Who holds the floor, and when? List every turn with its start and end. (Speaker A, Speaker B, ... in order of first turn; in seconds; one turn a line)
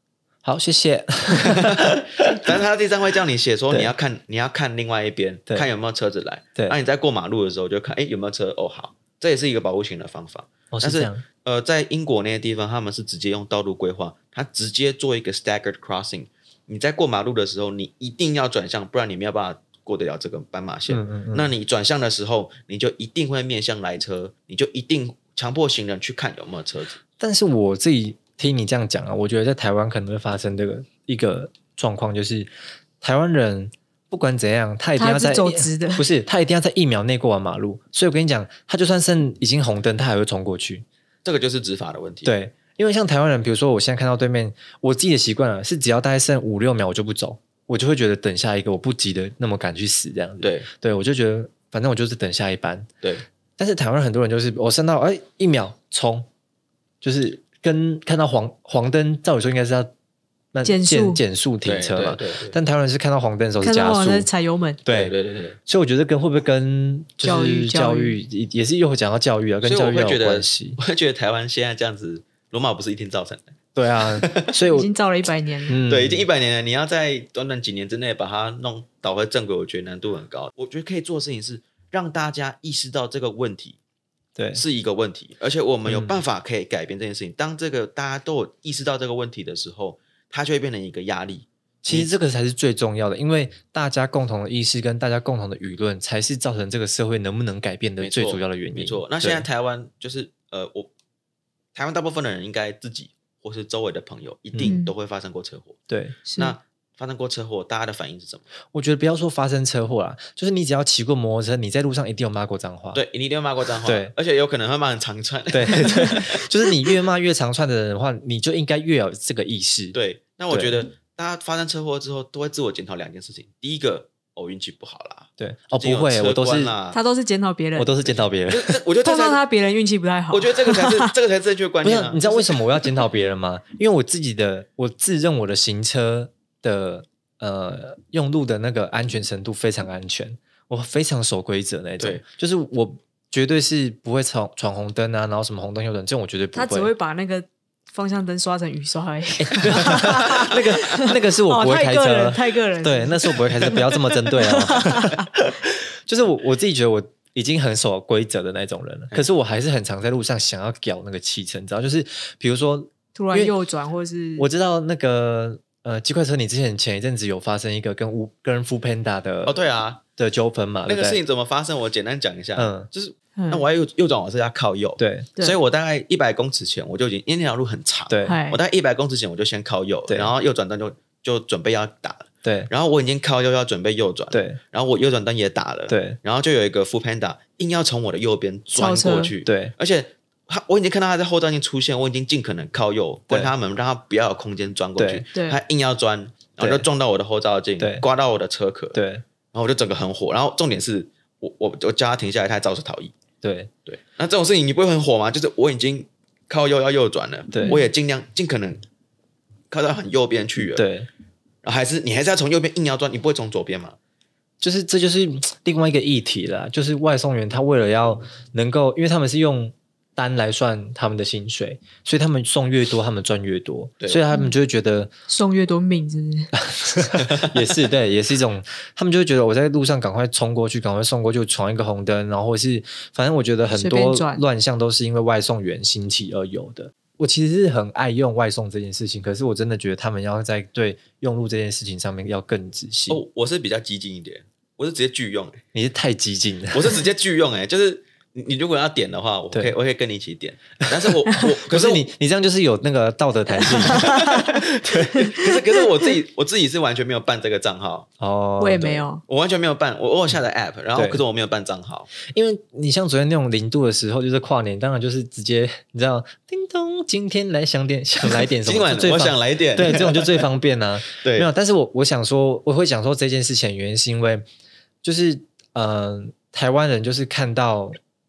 Speaker A: 0.4-2.5
Speaker B: 1.3-27.0
Speaker A: 10.7-11.2
Speaker A: 20.9-21.5
Speaker A: 27.2-40.8
Speaker C: 35.0-36.0
Speaker B: 41.2-42.3
Speaker A: 42.2-52.9
Speaker B: 50.4-50.7
Speaker A: 53.6-56.3
Speaker A: 57.0-59.9
Speaker A: 60.5-64.3
Speaker C: 60.6-61.2
Speaker B: 61.6-62.6
Speaker C: 63.6-64.8
Speaker A: 64.8-65.1
Speaker B: 64.9-65.6
Speaker A: 65.7-70.8
Speaker C: 67.2-68.2
Speaker B: 69.6-74.5
Speaker A: 73.7-74.9
Speaker C: 74.7-75.8
Speaker A: 75.7-76.2
Speaker B: 75.8-83.8
Speaker A: 84.3-84.6
Speaker B: 84.5-92.1
Speaker A: 85.9-86.2
Speaker A: 91.8-99.4
Speaker B: 98.0-100.9
Speaker B: 101.7-105.8
Speaker C: 104.6-104.9
Speaker A: 105.9-106.2
Speaker C: 106.2-106.5
Speaker B: 106.3-108.5
Speaker A: 108.7-113.0
Speaker B: 112.9-116.5
Speaker A: 113.8-114.1
Speaker A: 115.5-120.0
Speaker B: 119.9-127.0
Speaker A: 120.5-120.8
Speaker A: 125.4-126.7
Speaker C: 126.9-128.0
Speaker A: 127.8-128.8
Speaker B: 128.5-129.4
Speaker C: 129.0-131.1
Speaker B: 130.3-132.9
Speaker A: 131.8-146.9
Speaker C: 146.5-155.3
Speaker A: 149.4-163.5
Speaker C: 163.1-164.5
Speaker A: 164.4-169.6
Speaker B: 169.4-170.0
Speaker A: 170.2-171.2
Speaker B: 170.9-199.0
Speaker A: 172.6-172.9
Speaker C: 173.4-173.7
Speaker A: 175.0-175.3
Speaker A: 178.1-178.4
Speaker C: 178.2-178.6
Speaker A: 182.4-182.7
Speaker A: 184.3-184.6
Speaker A: 185.9-186.2
Speaker C: 188.8-189.3
Speaker A: 189.4-189.7
Speaker A: 195.0-195.2
Speaker A: 196.6-196.9
Speaker A: 197.8-198.0
Speaker A: 198.9-199.2
Speaker B: 199.5-203.1
Speaker A: 203.4-203.7
Speaker B: 203.8-208.8
Speaker A: 207.5-207.8
Speaker B: 209.7-210.8
Speaker A: 210.8-211.1
Speaker B: 211.6-213.9
Speaker A: 214.6-225.1
Speaker C: 225.3-226.5
Speaker A: 226.5-243.2
Speaker C: 233.7-234.4
Speaker B: 243.1-245.6
Speaker A: 245.7-247.0
Speaker B: 246.7-252.1
Speaker A: 250.8-255.3
Speaker C: 253.8-254.6
Speaker B: 253.8-258.1
Speaker C: 255.2-255.9
Speaker A: 258.2-259.1
Speaker C: 258.6-259.2
Speaker B: 259.3-262.1
Speaker A: 260.9-261.2
Speaker A: 262.2-274.4
Speaker B: 268.2-270.5
Speaker B: 271.1-271.5
Speaker A: 275.0-277.9